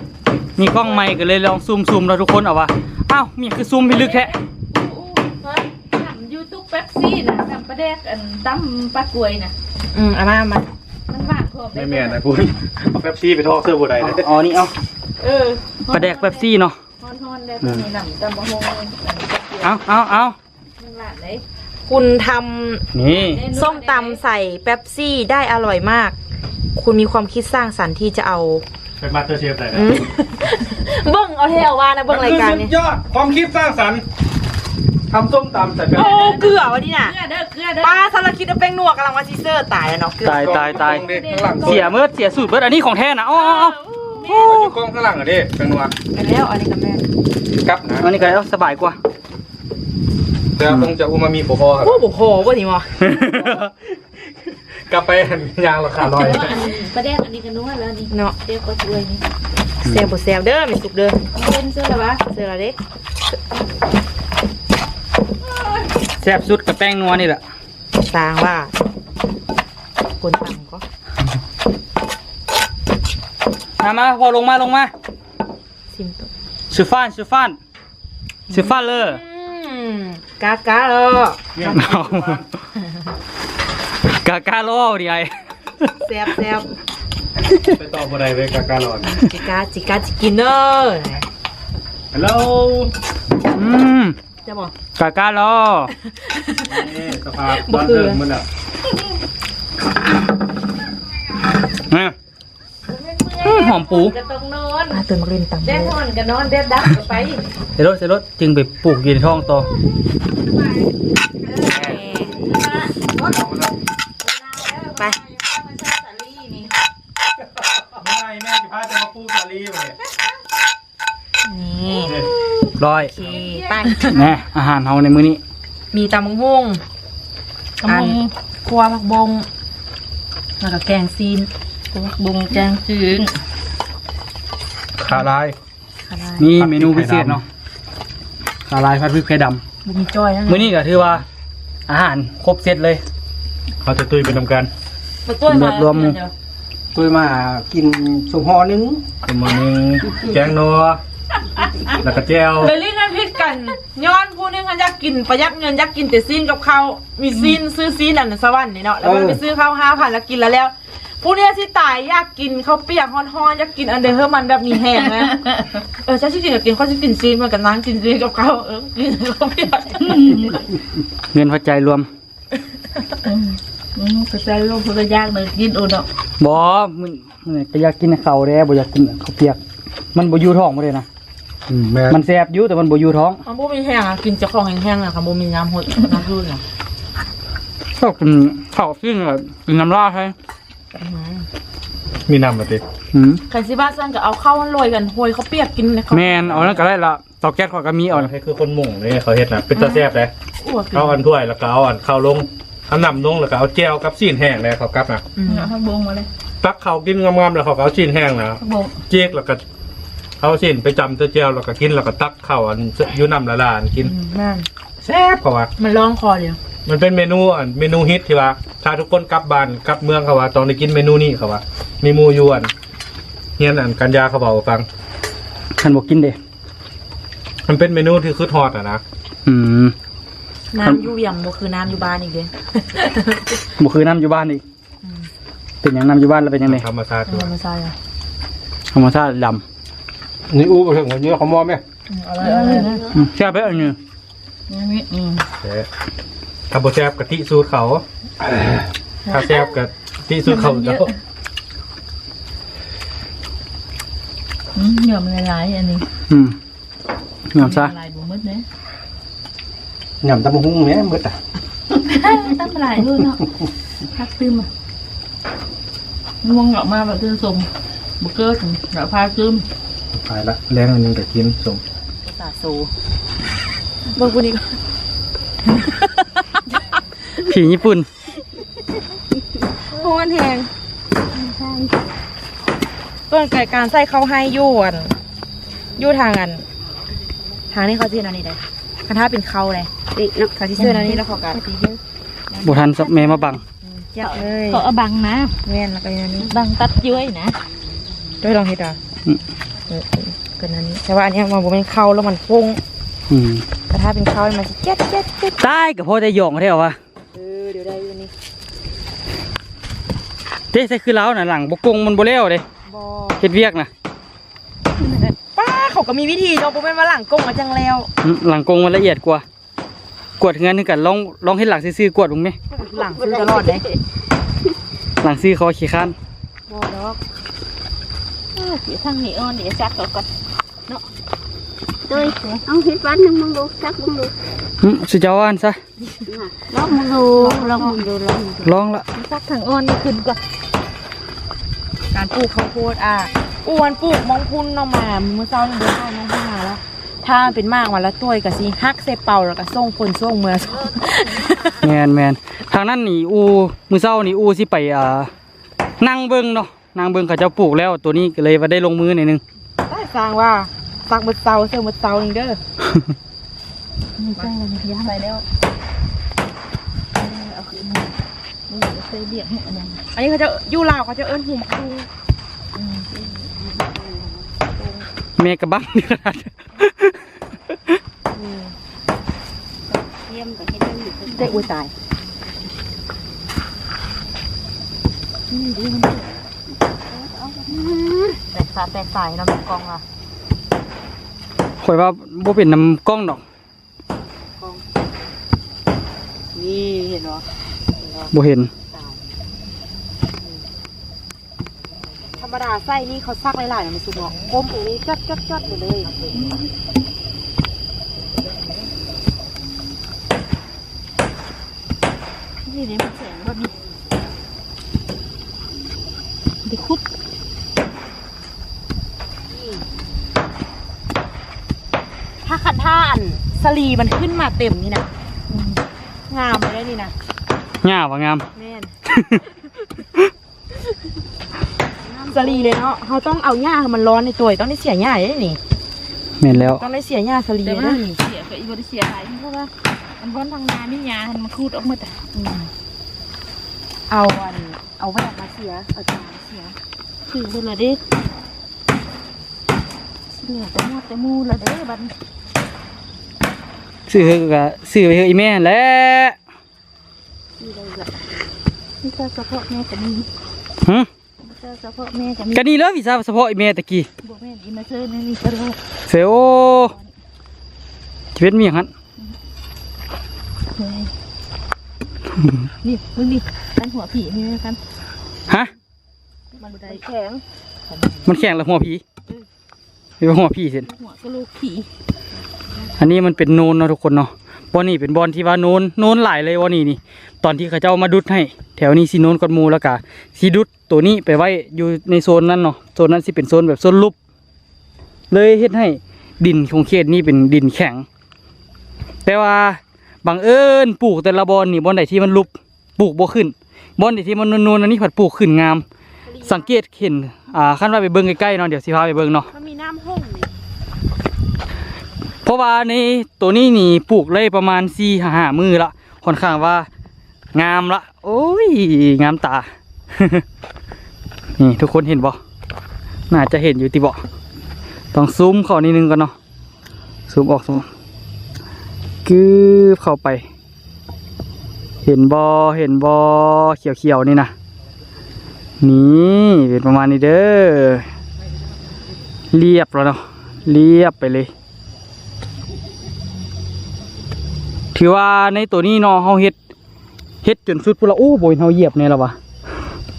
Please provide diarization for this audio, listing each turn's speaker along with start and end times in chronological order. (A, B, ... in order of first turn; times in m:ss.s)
0:00.6-0:04.3 A
0:00.6-0:01.0 B
0:03.8-0:09.5 C
0:09.9-0:10.7 B
0:11.1-0:12.2 C
0:11.7-0:14.3 D
0:14.0-0:14.7 A
0:15.2-0:19.7 C
0:15.9-0:16.8 A
0:19.6-0:20.4 A
0:20.8-0:21.4 C
0:21.9-0:22.8 B
0:22.9-0:23.4 A
0:23.1-0:24.2 C
0:23.5-0:26.1 B
0:26.7-0:28.6 B
0:29.0-0:30.0 D
0:29.7-0:32.7 B
0:32.1-0:34.0 D
0:35.1-0:36.3 D
0:35.9-0:37.2 B
0:36.0-0:38.1 C
0:37.8-0:40.5 B
0:40.2-0:41.0 A
0:40.2-0:42.0 D
0:40.9-0:41.7 C
0:41.6-0:43.8 A
0:43.7-0:44.7 B
0:44.0-0:44.7 C
0:44.2-0:45.9 D
0:46.1-0:47.0 B
0:47.6-0:48.2 D
0:48.0-0:49.0 A
0:50.6-0:52.0 D
0:51.8-0:53.0 B
0:53.0-0:53.6 A
0:53.4-0:53.7 D
0:54.8-0:56.6 D
0:56.0-0:59.2 C
0:58.1-0:58.4 B
0:59.8-1:01.2 B
1:01.3-1:02.2 C
1:02.3-1:02.8 B
1:06.2-1:07.4 A
1:08.0-1:08.7 B
1:10.2-1:10.8 B
1:13.8-1:14.9 A
1:15.9-1:16.3 B
1:16.7-1:17.6 A
1:18.5-1:21.8 B
1:18.5-1:19.2 A
1:21.5-1:22.4 D
1:21.7-1:22.4 A
1:24.1-1:25.4 A
1:26.0-1:26.7 B
1:27.7-1:29.1 D
1:29.0-1:31.2 B
1:32.1-1:32.9 D
1:33.5-1:34.2 A
1:34.4-1:34.7 B
1:35.0-1:35.9 A
1:36.1-1:36.9 B
1:36.6-1:38.4 D
1:37.5-1:38.2 B
1:41.9-1:42.1 A
1:42.9-1:45.0 C
1:43.4-1:44.1 A
1:44.9-1:46.0 B
1:45.6-1:47.4 C
1:47.8-1:49.7 A
1:51.4-1:53.1 C
1:51.6-1:52.3 B
1:53.2-1:53.7 D
1:54.2-1:56.7 C
1:57.8-2:00.0 D
2:01.4-2:02.2 B
2:02.8-2:03.1 A
2:03.0-2:04.3 B
2:03.2-2:04.2 C
2:04.1-2:05.4 A
2:05.9-2:06.8 B
2:07.8-2:08.3 C
2:07.8-2:09.5 B
2:10.6-2:11.5 B
2:11.9-2:13.3 C
2:15.0-2:15.5 D
2:16.1-2:16.5 B
2:16.4-2:17.4 A
2:16.6-2:17.4 D
2:18.7-2:19.6 A
2:19.8-2:20.7 B
2:20.5-2:21.2 A
2:21.9-2:23.0 A
2:23.8-2:24.7 D
2:25.2-2:26.3 B
2:25.5-2:26.2 A
2:26.9-2:29.0 E
2:29.2-2:31.0 D
2:32.0-2:32.7 D
2:32.6-2:45.4 B
2:45.2-2:45.8 C
2:46.0-2:50.3 B
2:50.0-2:50.6 C
2:51.3-2:52.1 A
2:53.2-2:56.0 C
2:56.4-2:59.6 A
3:00.1-3:01.0 A
3:01.7-3:02.2 D
3:02.1-3:03.4 A
3:03.4-3:06.6 B
3:08.0-3:10.3 A
3:10.9-3:11.4 B
3:12.3-3:12.8 D
3:13.1-3:13.4 A
3:13.5-3:16.8 B
3:16.1-3:18.3 A
3:18.1-3:20.3 D
3:19.7-3:20.0 B
3:20.6-3:21.2 B
3:20.9-3:25.2 D
3:25.4-3:25.7 B
3:25.4-3:26.3 C
3:26.6-3:29.6 D
3:28.6-3:28.9 C
3:30.4-3:34.1 D
3:34.0-3:34.6 B
3:35.0-3:35.7 D
3:35.8-3:36.6 B
3:36.8-3:42.7 D
3:43.6-3:44.8 D
3:45.8-3:46.4 A
3:47.7-3:49.0 D
3:49.4-3:49.9 A
3:50.7-3:53.5 B
3:53.8-3:54.6 A
3:55.8-3:56.8 A
3:56.6-3:57.5 D
3:57.3-3:57.9 B
3:58.9-3:59.6 A
4:00.5-4:01.8 D
4:02.1-4:03.0 B
4:02.4-4:03.2 C
4:03.2-4:04.0 A
4:04.7-4:05.4 C
4:05.6-4:05.9 D
4:06.7-4:08.7 D
4:09.2-4:11.1 D
4:10.4-4:11.1 C
4:14.7-4:16.0 C
4:16.3-4:16.6 A
4:17.5-4:17.9 A
4:17.5-4:18.6 C
4:20.2-4:21.2 E
4:20.6-4:21.3 D
4:21.9-4:23.4 C
4:24.1-4:24.7 C
4:26.4-4:27.7 C
4:28.2-4:29.6 C
4:30.1-4:31.8 D
4:32.2-4:32.9 B
4:34.1-4:34.7 B
4:35.7-4:36.3 B
4:37.4-4:38.1 A
4:39.9-4:40.7 B
4:41.3-4:42.0 C
4:43.3-4:45.1 B
4:46.0-4:46.6 B
4:47.7-4:49.9 B
4:50.1-4:50.5 F
4:50.6-4:51.6 B
4:50.8-4:52.0 C
4:52.5-4:53.6 C
4:52.6-4:53.6 A
4:53.8-4:54.8 B
4:54.2-4:55.6 C
4:55.6-4:56.5 B
4:56.4-4:57.6 C
4:58.4-4:59.0 B
4:59.9-5:02.8 B
5:03.3-5:03.6 A
5:03.9-5:05.6 B
5:05.6-5:07.0 A
5:07.3-5:08.3 B
5:10.7-5:12.6 A
5:12.8-5:13.4 B
5:13.4-5:13.9 A
5:15.5-5:18.1 B
5:18.2-5:19.4 A
5:20.4-5:22.6 A
5:22.7-5:23.8 B
5:22.8-5:23.9 F
5:25.2-5:26.1 A
5:26.7-5:27.2 B
5:28.6-5:30.3 C
5:32.1-5:34.4 F
5:32.1-5:32.6 C
5:34.8-5:35.8 A
5:36.3-5:38.7 F
5:37.4-5:37.8 B
5:37.5-5:38.0 C
5:38.6-5:39.0 A
5:39.1-5:40.4 C
5:42.1-5:51.8 B
5:51.8-5:55.3 A
5:56.0-5:59.4 A
5:59.9-6:02.6 B
6:04.2-6:05.4 C
6:07.2-6:08.1 C
6:08.7-6:10.0 C
6:10.1-6:12.1 B
6:12.7-6:13.5 C
6:13.6-6:14.5 F
6:14.7-6:15.0 B
6:15.4-6:17.2 A
6:18.3-6:18.7 B
6:19.9-6:21.6 F
6:21.3-6:21.9 B
6:25.5-6:26.4 C
6:26.7-6:27.8 F
6:27.7-6:30.0 B
6:31.8-6:33.4 A
6:36.5-6:37.4 B
6:38.0-6:38.3 B
6:38.3-6:38.7 A
6:42.4-6:46.2 B
6:46.3-6:46.7 C
6:52.6-6:53.8 C
6:56.6-6:57.0 C
6:59.5-6:59.8 B
7:02.4-7:05.1 B
7:05.5-7:05.8 C
7:06.3-7:07.1 B
7:07.8-7:08.4 A
7:08.5-7:09.4 B
7:09.1-7:09.4 A
7:12.1-7:12.8 F
7:12.3-7:15.6 B
7:16.4-7:16.8 A
7:16.5-7:18.2 B
7:17.6-7:22.2 C
7:22.3-7:22.7 B
7:24.1-7:26.1 B
7:26.1-7:26.7 C
7:27.3-7:28.0 C
7:30.3-7:32.1 C
7:34.1-7:36.4 A
7:37.6-7:38.2 F
7:39.0-7:40.3 C
7:41.4-7:42.7 C
7:42.5-7:44.1 A
7:44.2-7:45.8 C
7:46.1-7:46.9 A
7:46.8-7:47.1 C
7:48.4-7:48.9 A
7:50.7-7:51.1 C
7:52.8-7:54.8 C
7:56.6-7:57.4 C
7:58.2-7:59.0 A
8:00.2-8:00.9 A
8:00.9-8:01.9 C
8:03.0-8:14.1 A
8:15.3-8:18.0 A
8:19.2-8:25.8 A
8:26.3-8:26.7 B
8:26.4-8:29.5 A
8:29.5-8:30.5 B
8:32.4-8:36.9 A
8:37.5-8:40.4 A
8:41.6-8:42.4 A
8:43.3-8:44.2 A
8:45.1-8:46.3 A
8:47.3-8:47.8 A
8:49.2-8:50.4 A
8:52.0-8:54.5 A
8:55.8-8:58.1 A
8:59.5-9:01.5 A
9:04.9-9:06.5 A
9:07.4-9:09.4 A